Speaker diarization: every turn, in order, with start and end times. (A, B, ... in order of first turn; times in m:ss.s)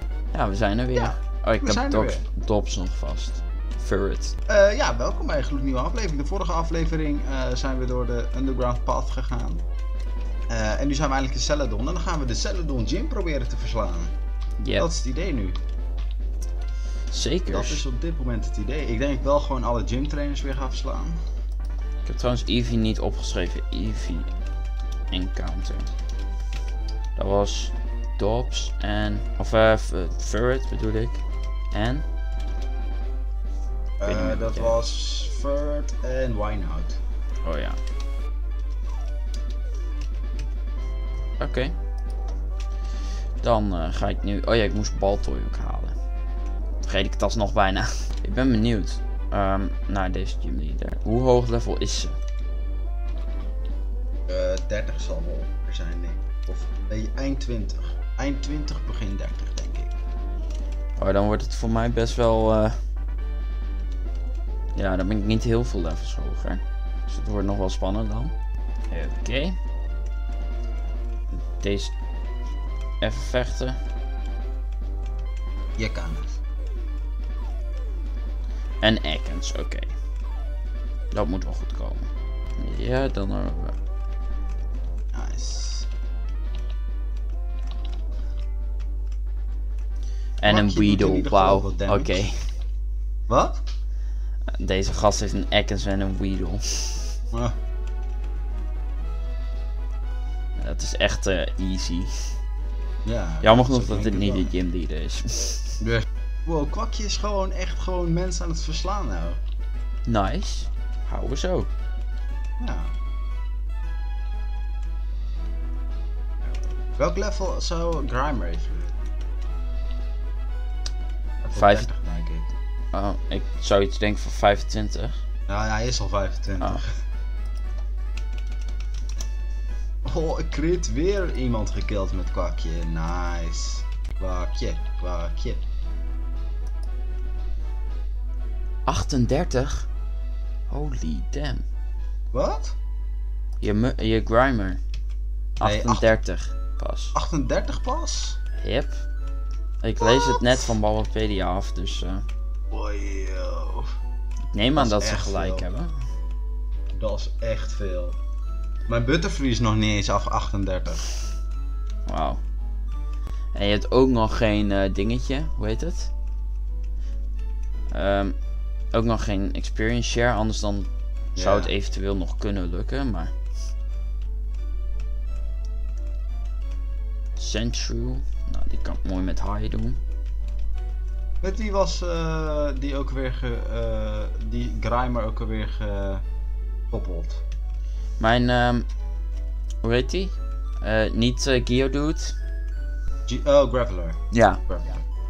0:00.3-0:04.4 A
0:01.0-0:02.3 B
0:04.5-0:09.6 B
0:10.5-0:14.2 B
0:14.6-0:14.9 A
0:14.8-0:15.6 B
0:17.1-0:17.8 A
0:17.5-0:21.2 B
0:22.1-0:24.3 A
0:25.1-0:25.9 A
0:27.2-0:32.0 A
0:34.0-0:37.0 B
0:34.0-0:34.8 A
0:37.4-0:37.8 A
0:41.4-0:41.7 A
0:43.4-0:46.0 A
0:46.8-0:52.2 A
0:54.3-1:00.0 B
1:01.0-1:02.8 A
1:04.8-1:08.3 A
1:08.9-1:09.6 A
1:11.5-1:11.9 A
1:13.0-1:13.8 A
1:15.8-1:16.4 B
1:18.8-1:19.9 A
1:21.1-1:23.8 A
1:25.1-1:25.9 B
1:30.4-1:32.5 A
1:30.4-1:32.3 B
1:33.3-1:33.6 B
1:34.6-1:37.2 A
1:40.6-1:42.4 A
1:43.0-1:44.6 B
1:43.4-1:45.8 A
1:45.8-1:49.4 B
1:50.1-1:51.7 A
1:52.6-1:52.9 B
1:56.9-1:59.0 B
2:01.4-2:02.5 B
2:01.5-2:01.9 A
2:02.9-2:05.2 A
2:05.5-2:06.9 B
2:10.0-2:15.6 B
2:18.9-2:19.9 A
2:20.7-2:21.6 A
2:22.3-2:22.8 B
2:23.6-2:24.8 A
2:25.6-2:27.2 A
2:25.6-2:26.2 B
2:27.1-2:28.4 B
2:28.6-2:29.0 A
2:29.8-2:32.3 A
2:30.0-2:30.8 B
2:32.7-2:33.9 B
2:34.5-2:36.0 A
2:34.8-2:35.7 B
2:36.9-2:38.2 B
2:38.9-2:41.1 B
2:42.1-2:42.4 A
2:43.5-2:46.1 A
2:47.9-2:48.4 A
2:48.9-2:53.3 A
2:51.4-2:51.7 B
2:57.4-3:00.0 A
3:01.4-3:06.2 B
3:06.9-3:07.4 B
3:08.2-3:08.9 A
3:09.8-3:12.4 A
3:13.3-3:15.0 B
3:14.3-3:14.6 A